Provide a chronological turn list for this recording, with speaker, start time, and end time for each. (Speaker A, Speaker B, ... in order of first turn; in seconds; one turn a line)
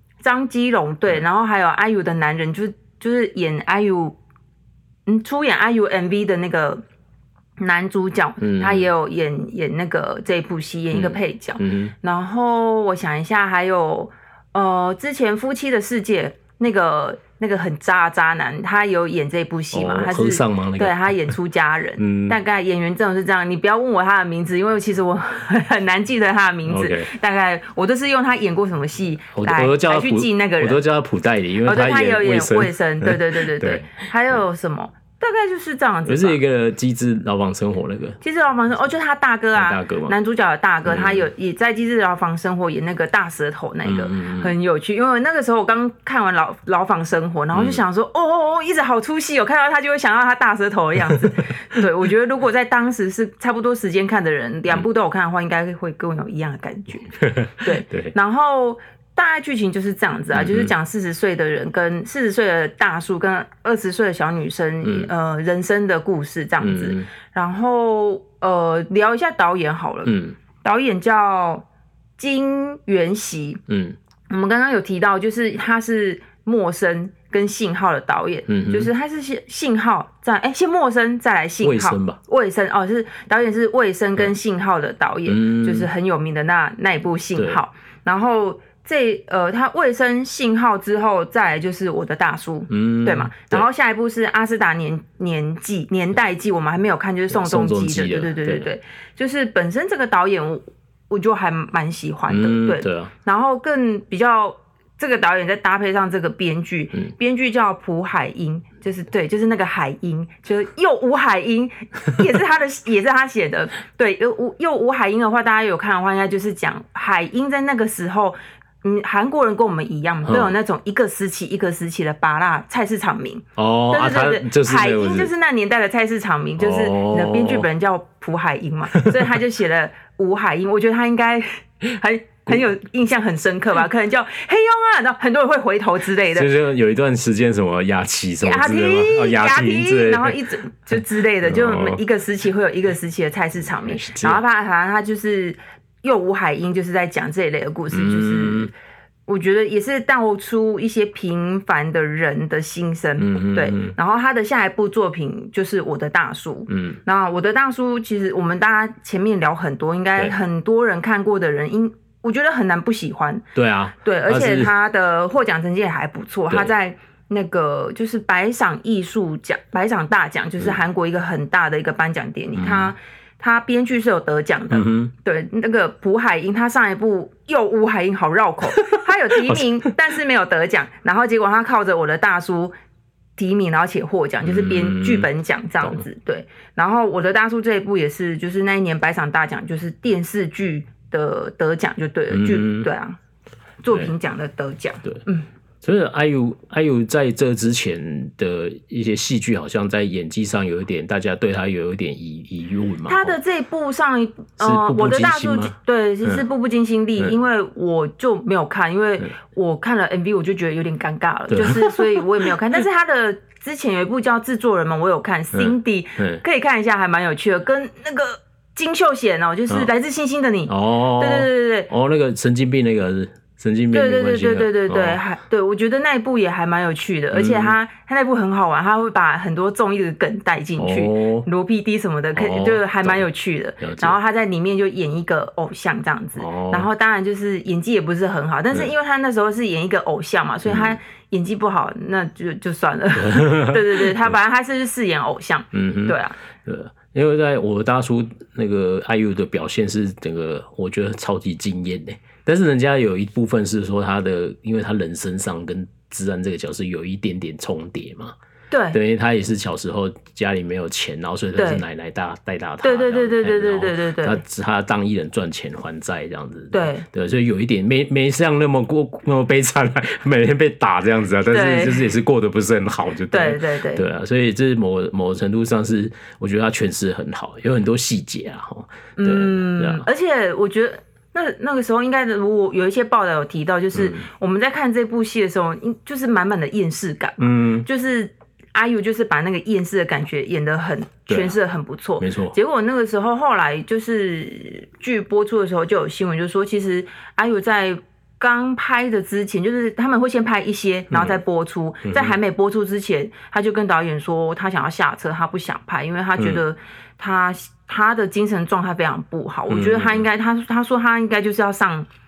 Speaker A: 0.2-4.2
Speaker A: 5.1-6.8
Speaker A: 7.6-30.8
Speaker B: 8.4-8.9
Speaker B: 10.9-11.9
Speaker B: 19.7-21.3
Speaker B: 22.0-22.4
Speaker B: 26.6-27.1
Speaker B: 29.4-33.9
Speaker A: 31.6-36.4
Speaker B: 36.0-38.2
Speaker A: 38.2-71.6
Speaker B: 39.5-40.1
Speaker B: 40.9-41.3
Speaker B: 43.8-44.5
Speaker B: 47.5-47.8
Speaker B: 57.2-58.1
Speaker B: 60.3-60.7
Speaker B: 64.8-65.1
Speaker B: 66.6-67.1
Speaker B: 70.0-70.3
Speaker A: 72.2-73.6
Speaker B: 73.7-74.0
Speaker A: 74.3-136.5
Speaker B: 78.5-78.9
Speaker B: 81.6-82.2
Speaker B: 85.3-85.9
Speaker B: 92.7-93.7
Speaker B: 97.3-98.7
Speaker B: 102.3-103.1
Speaker B: 120.3-120.5
Speaker B: 123.5-125.3
Speaker B: 126.6-127.7
Speaker B: 129.0-129.3
Speaker B: 136.3-140.4
Speaker A: 138.4-148.7
Speaker B: 140.9-142.0
Speaker B: 143.7-144.4
Speaker B: 147.9-148.7
Speaker A: 149.3-163.4
Speaker B: 153.2-153.9
Speaker B: 156.7-157.0
Speaker B: 163.5-164.7
Speaker A: 164.0-182.7
Speaker B: 172.5-172.9
Speaker B: 174.7-175.1
Speaker B: 178.8-179.6
Speaker A: 183.4-193.2
Speaker B: 184.4-185.3
Speaker B: 192.3-192.9
Speaker A: 193.8-195.5
Speaker B: 195.8-203.4
Speaker A: 203.1-221.9
Speaker B: 204.6-206.4
Speaker B: 211.5-212.5
Speaker B: 215.5-216.4
Speaker B: 220.7-225.2
Speaker A: 223.9-246.4
Speaker B: 227.3-227.8
Speaker B: 230.8-231.5
Speaker B: 232.3-233.2
Speaker B: 233.8-234.2
Speaker B: 236.4-236.9
Speaker B: 240.6-241.0
Speaker B: 243.2-244.3
Speaker B: 245.7-258.3
Speaker A: 258.7-259.0
Speaker B: 258.9-280.1
Speaker A: 261.6-261.8
Speaker A: 262.8-264.4
Speaker A: 266.7-267.1
Speaker A: 271.5-272.1
Speaker A: 273.3-274.0
Speaker A: 279.2-312.1
Speaker B: 283.9-284.2
Speaker B: 287.4-287.9
Speaker B: 291.3-291.6
Speaker B: 292.2-292.6
Speaker B: 301.1-301.4
Speaker B: 302.0-302.4
Speaker B: 309.7-310.2